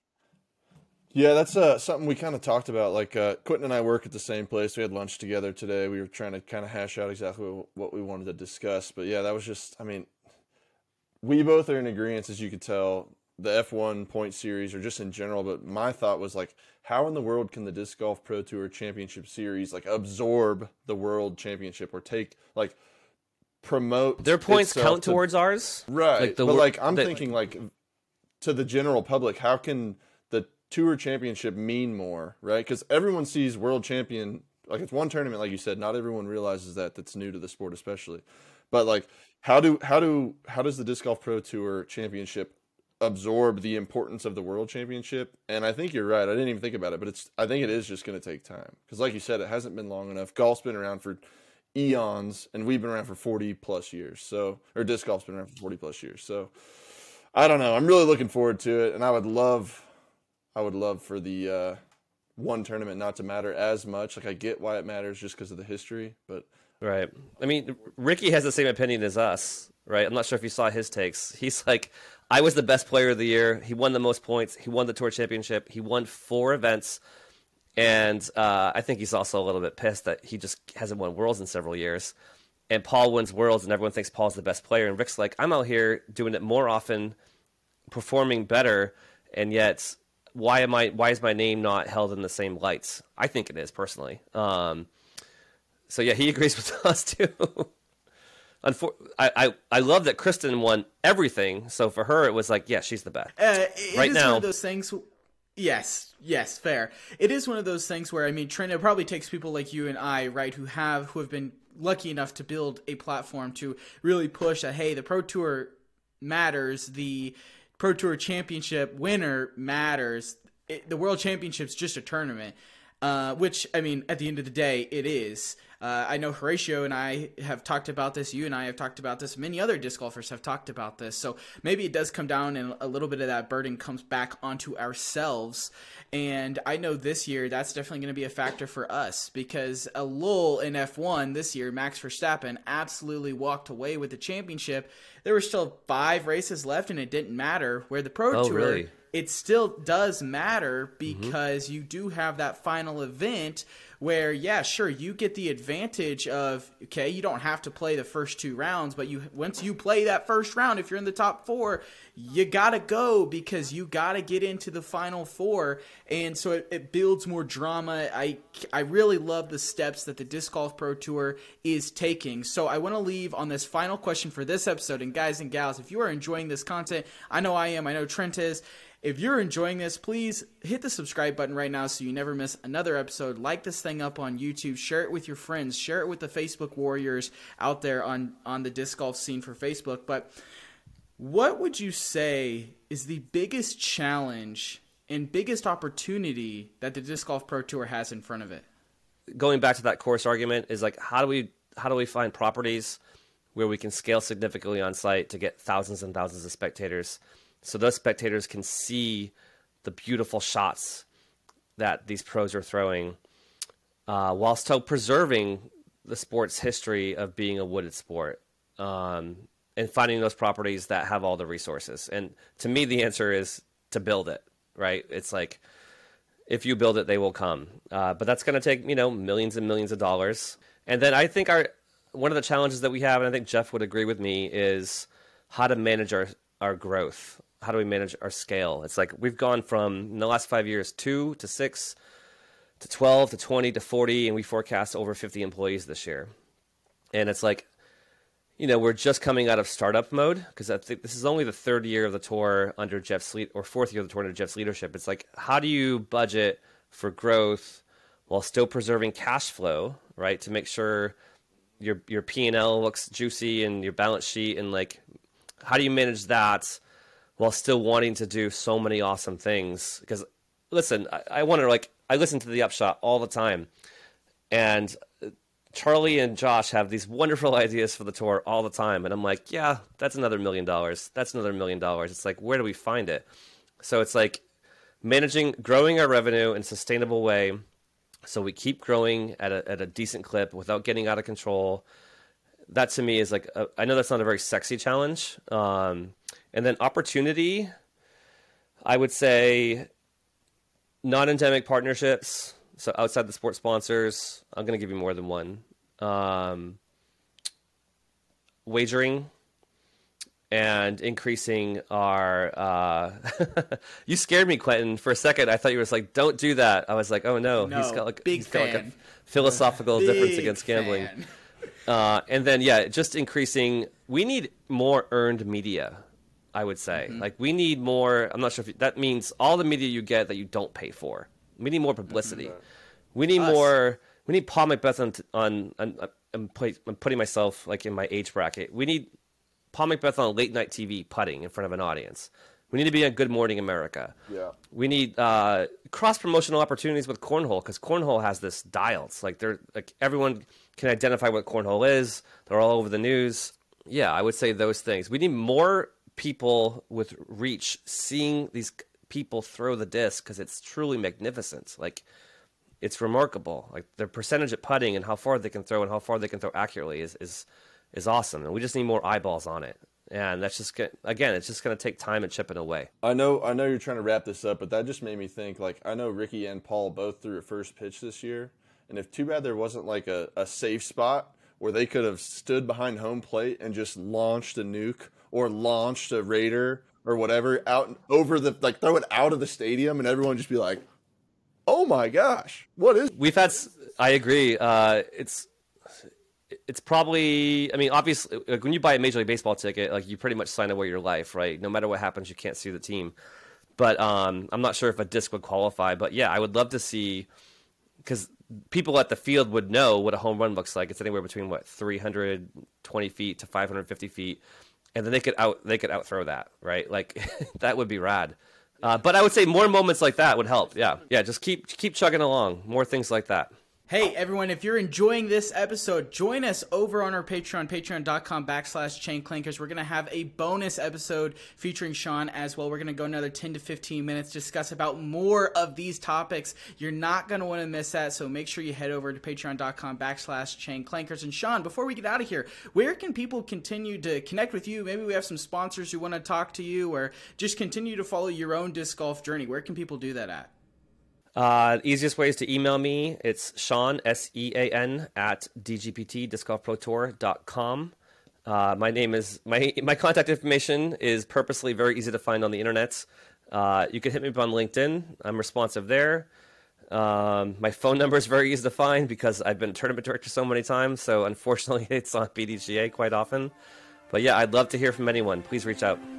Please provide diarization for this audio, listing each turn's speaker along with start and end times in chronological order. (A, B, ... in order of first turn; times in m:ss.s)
0:01.1-0:10.1 A
0:11.2-0:22.8 A
0:23.6-0:25.2 A
0:24.2-0:27.2 B
0:25.9-0:27.7 A
0:28.4-0:51.2 A
0:51.7-0:56.5 A
0:57.3-0:59.9 A
1:00.6-1:01.8 A
1:02.4-1:06.5 A
1:06.8-1:17.0 B
1:17.8-1:22.1 B
1:22.7-1:27.2 B
1:27.9-1:34.9 B
1:35.9-1:37.7 B
1:38.6-1:43.4 B
1:43.4-1:45.1 C
1:43.9-1:44.5 B
1:45.6-3:10.3 C
2:28.3-2:28.9 B
2:31.1-2:31.4 B
3:11.2-3:18.6 C
3:19.3-3:23.0 B
3:23.6-3:29.3 B
3:29.8-3:31.0 B
3:31.8-3:33.2 B
3:34.1-3:45.6 B
3:46.5-4:02.0 B
4:02.8-4:06.3 B
4:07.1-4:07.7 B
4:08.6-4:21.2 B
4:21.8-4:25.0 B
4:25.6-4:26.8 B
4:27.4-4:33.7 B
4:34.5-4:43.3 B
4:43.8-4:44.4 B
4:45.0-4:47.6 B
4:48.3-4:51.8 B
4:52.7-4:57.7 B
4:58.8-4:59.9 B
5:01.0-5:06.8 B
5:08.7-5:09.3 B
5:10.5-5:21.1 B
5:17.6-5:19.0 C
5:19.9-5:21.3 C
5:21.9-5:26.0 B
5:26.5-5:32.6 B
5:33.2-5:39.1 B
5:33.4-5:33.7 C
5:39.7-5:44.2 B
5:44.7-6:02.0 B
6:02.8-6:12.9 B
6:13.0-6:30.9 A
6:31.7-6:33.1 A
6:33.2-6:35.5 B
6:36.7-6:43.2 B
6:43.8-6:47.3 B
6:48.0-6:54.4 B
6:55.0-7:03.5 B
7:03.9-7:30.5 C
7:31.4-7:37.9 B
7:38.5-7:46.3 B
7:46.9-7:53.5 B
7:54.1-7:56.0 B